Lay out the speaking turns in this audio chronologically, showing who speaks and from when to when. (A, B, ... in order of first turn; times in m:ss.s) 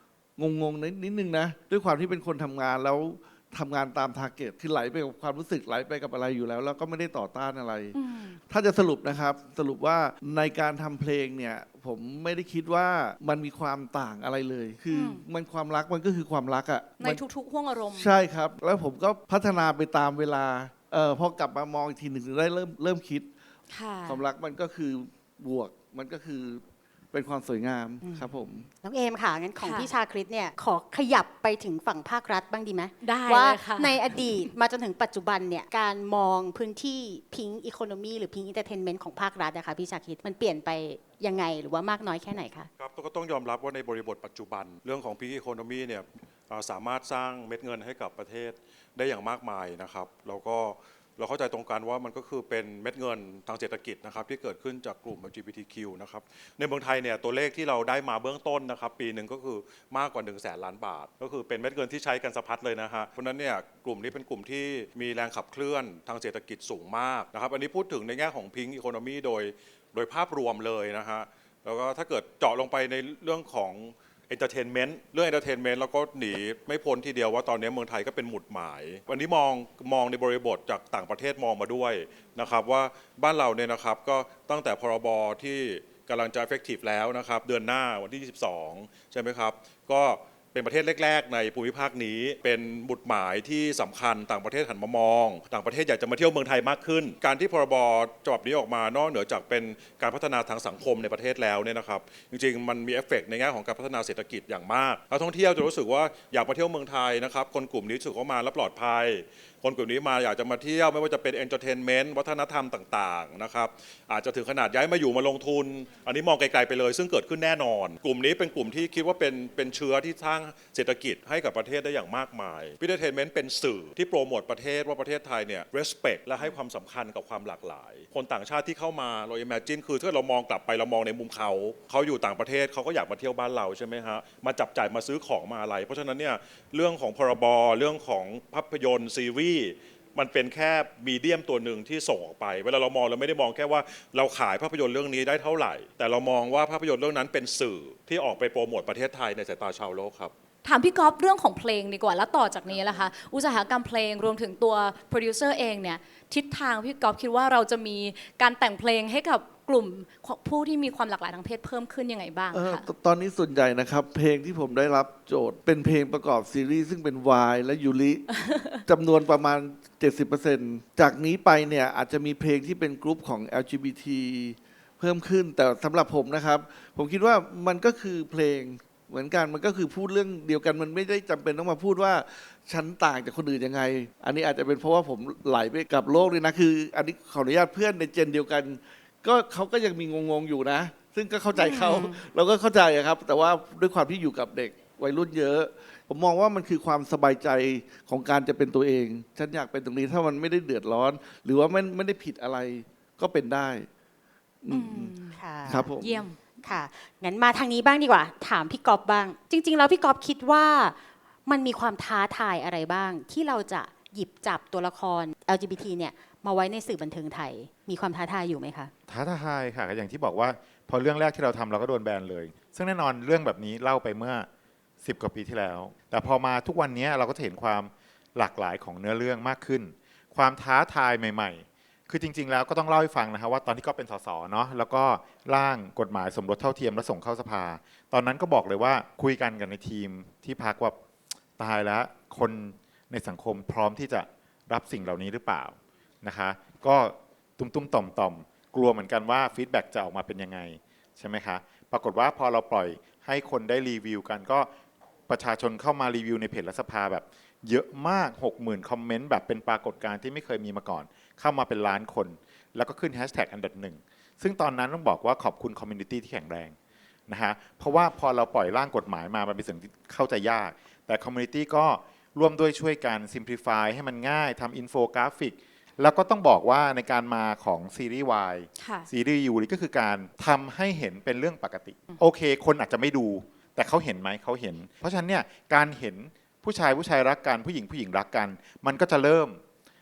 0:00.4-0:08.0 A
0:07.9-0:08.4 B
0:08.5-0:17.2 A
0:14.9-0:15.2 B
0:17.0-0:18.1 B
0:17.9-0:23.3 A
0:23.7-0:24.2 B
0:24.1-0:28.7 A
0:28.0-0:42.7 C
0:29.6-0:29.9 B
0:33.0-0:34.5 B
0:42.8-2:30.3 D
2:30.6-2:42.9 B
2:42.5-2:48.3 A
2:48.3-2:48.8 B
2:48.9-3:23.9 A
3:24.6-3:25.1 A
3:24.7-3:25.4 B
3:25.4-3:25.9 C
3:25.7-3:26.2 A
3:26.0-3:26.4 B
3:26.6-3:38.9 C
3:39.1-3:44.5 E
3:45.0-4:01.0 E
4:01.6-4:14.7 E
4:15.3-4:26.8 E
4:27.3-4:49.6 E
4:38.8-4:39.1 B